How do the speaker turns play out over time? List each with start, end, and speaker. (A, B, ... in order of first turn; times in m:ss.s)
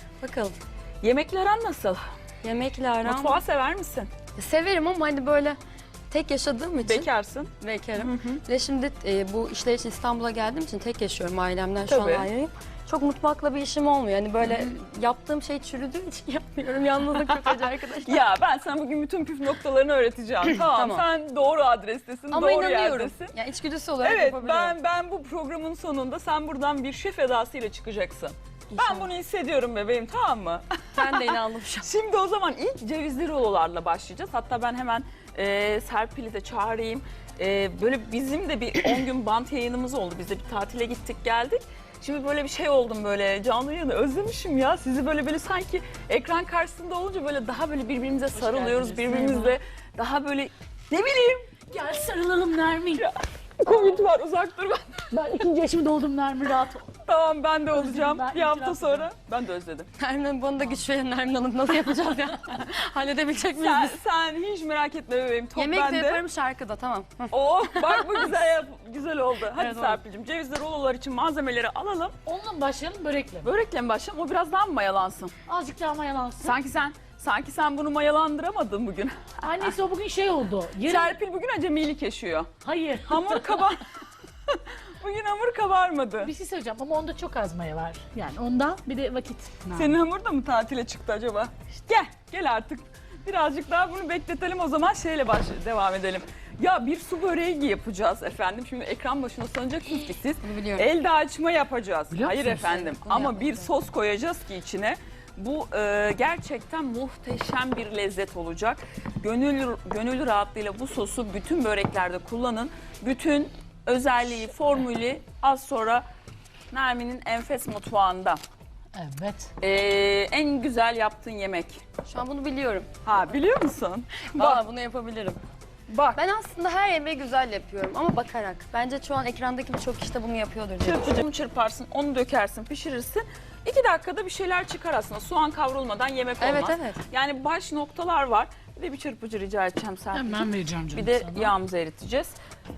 0:00.2-0:00.6 A
0:01.0-0:02.0 B
0:02.4-0:03.4 A
0:03.0-0:04.1 B
0:04.4-0:05.6 A
0:06.1-0:18.2 A
0:06.8-0:08.4 B
0:11.9-0:12.3 B
0:14.4-0:14.8 B
0:18.0-0:23.3 B
0:20.6-0:21.1 A
0:22.3-0:24.8 A
0:24.0-0:51.5 B
0:28.7-0:29.1 A
0:31.0-0:31.9 A
0:48.3-0:49.6 C
0:51.7-0:53.1 C
0:53.0-0:55.4 B
0:55.1-0:56.9 C
0:57.0-0:59.9 B
0:57.7-0:59.1 C
1:00.0-1:04.0 A
1:03.5-1:06.2 B
1:05.6-1:08.3 A
1:07.3-1:12.2 B
1:09.6-1:10.0 A
1:12.3-1:13.5 C
1:13.4-1:15.4 B
1:15.5-1:16.6 C
1:16.4-1:19.8 B
1:19.4-1:21.2 C
1:20.8-1:22.5 B
1:22.6-1:23.7 C
1:23.0-1:23.9 B
1:24.5-1:26.3 B
1:26.2-1:30.0 C
1:29.7-1:56.0 B
1:39.8-1:40.9 A
1:42.1-1:42.7 C
1:42.5-1:43.7 A
1:56.7-1:58.4 B
1:58.9-1:59.5 C
1:59.6-2:01.8 B
2:02.1-2:02.9 A
2:03.0-2:04.6 B
2:04.3-2:05.4 A
2:05.9-2:06.2 B
2:06.2-2:11.2 A
2:10.8-2:22.4 B
2:16.4-2:17.0 A
2:20.1-2:21.6 C